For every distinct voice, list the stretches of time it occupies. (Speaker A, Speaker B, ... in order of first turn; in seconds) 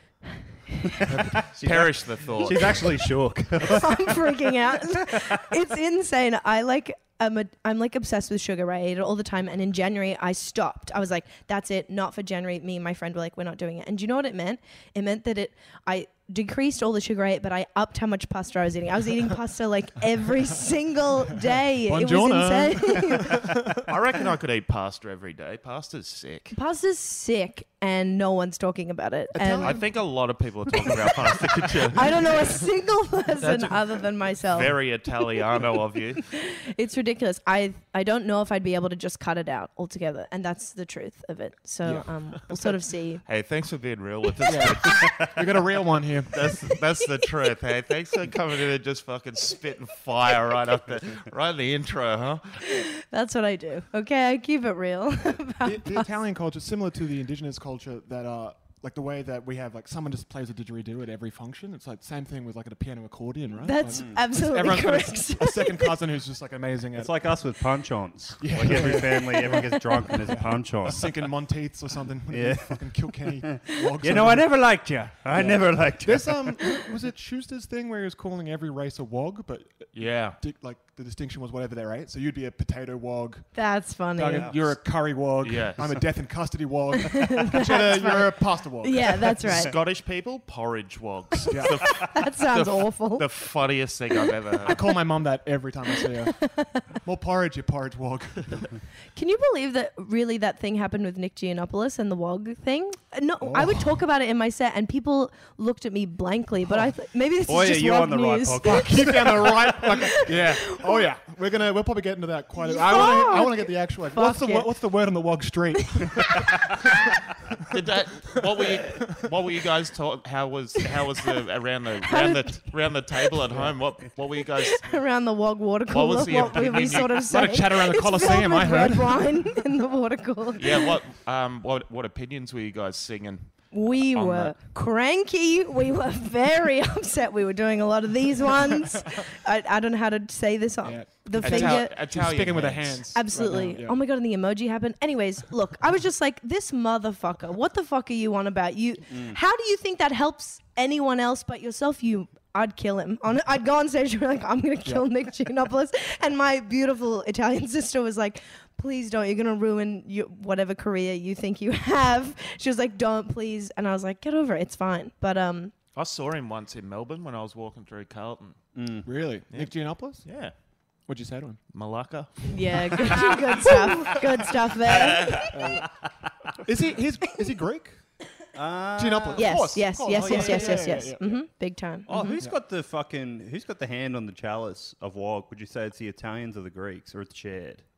Speaker A: 1.0-1.4, 21.8-23.9, 29.3-29.9, 30.8-31.6, 41.8-42.5, 44.4-46.6, 55.6-67.3, 68.4-74.7, 75.3-83.5, 84.2-89.5, 91.5-91.8, 94.6-98.8, 103.4-103.9, 108.6-116.9, 118.5-119.0, 127.2-129.3, 140.8-144.0, 169.0-170.3, 171.1-171.6, 175.5-175.9, 176.6-178.0, 179.0-181.4
Speaker B: 1.2-5.6, 63.9-64.2, 67.0-71.2, 72.3-76.6, 107.5-109.7, 149.1-149.4, 168.7-169.1, 178.5-181.1, 182.1-187.8
Speaker C: 1.5-2.8, 23.9-26.5, 29.6-32.5, 33.4-36.3, 43.2-45.3, 46.3-52.6, 79.9-80.4, 84.3-84.8, 85.4-85.9, 87.8-88.0, 89.5-95.0, 117.7-125.0, 125.9-127.5, 130.6-134.6, 141.4-143.1, 165.9-168.7, 169.5-170.5, 171.7-173.1, 174.8-175.6
Speaker D: 3.7-23.5, 26.5-29.8, 31.9-35.1, 36.3-43.2, 52.7-56.0, 63.6-66.0, 68.9-69.7, 83.5-84.5, 87.4-89.7, 92.1-93.2, 96.4-96.7, 99.2-108.9, 109.8-111.0, 112.6-114.7, 122.0-122.7, 124.7-130.8, 133.7-142.0, 143.1-165.7, 172.5-175.5, 179.4-182.4